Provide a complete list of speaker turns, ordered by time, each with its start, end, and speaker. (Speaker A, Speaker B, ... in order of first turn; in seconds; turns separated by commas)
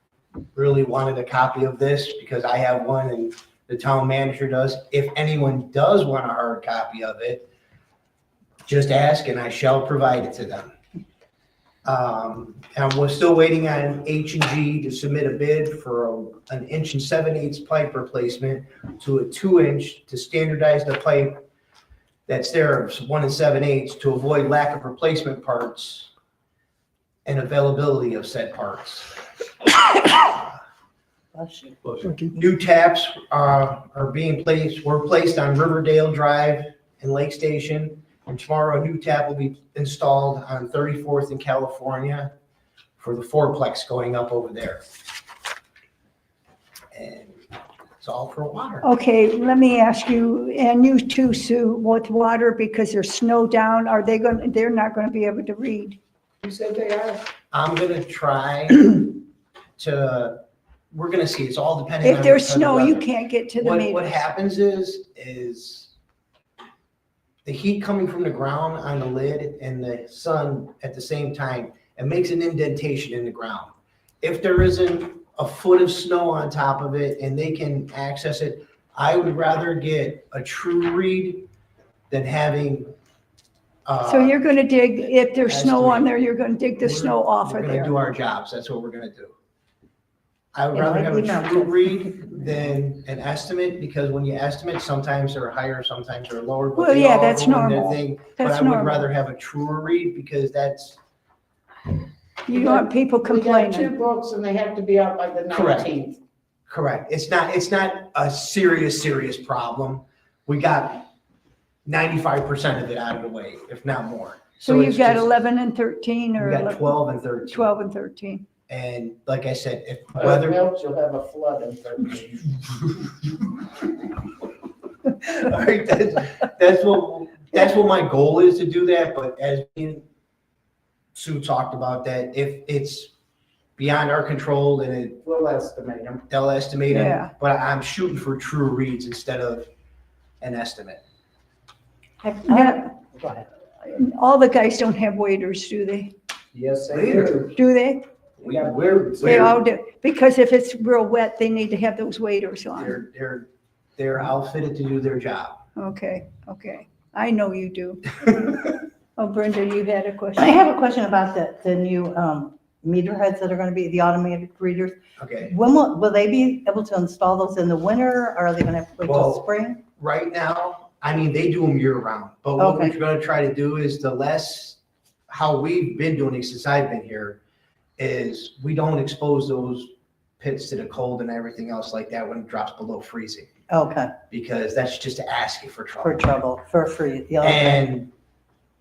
Speaker A: 0.5-7.5, Speaker A: 8.7-10.7, Speaker A: 11.8-21.4, Speaker A: 22.3-26.1, Speaker A: 27.2-29.1, Speaker A: 29.9-30.5, Speaker B: 31.3-31.8, Speaker A: 31.9-42.3, Speaker A: 43.0-44.8, Speaker A: 46.9-47.4, Speaker A: 48.0-48.9, Speaker C: 48.8-56.0, Speaker A: 56.5-59.2, Speaker A: 59.8-63.1, Speaker C: 62.0-64.1, Speaker A: 63.6-65.9, Speaker A: 67.5-81.5, Speaker A: 82.1-82.9, Speaker A: 83.9-84.4, Speaker C: 84.0-88.0, Speaker A: 85.4-86.1, Speaker A: 86.8-89.3, Speaker A: 90.5-101.0, Speaker B: 90.7-92.0, Speaker C: 96.8-99.0, Speaker C: 102.5-104.0, Speaker A: 105.5-105.9, Speaker A: 106.7-111.1, Speaker A: 111.8-115.3, Speaker C: 114.6-118.5, Speaker A: 116.4-117.7, Speaker A: 118.7-120.6, Speaker D: 120.2-122.5, Speaker A: 125.2-130.1, Speaker A: 131.2-133.1, Speaker A: 133.8-135.2, Speaker D: 135.2-136.2, Speaker A: 136.3-139.7, Speaker C: 136.9-137.3, Speaker A: 140.4-141.0, Speaker B: 142.2-143.4, Speaker C: 142.5-142.9, Speaker C: 143.8-146.1, Speaker D: 146.8-147.2, Speaker A: 146.9-147.5, Speaker C: 147.5-148.1, Speaker A: 148.4-149.6, Speaker C: 149.2-153.0, Speaker A: 152.8-155.6, Speaker C: 155.8-160.6, Speaker B: 160.4-169.8, Speaker A: 165.2-165.5, Speaker A: 169.0-177.4, Speaker B: 172.6-173.0, Speaker A: 178.0-183.5, Speaker B: 183.7-184.1, Speaker A: 184.3-186.2, Speaker B: 186.0-187.8, Speaker A: 187.4-188.1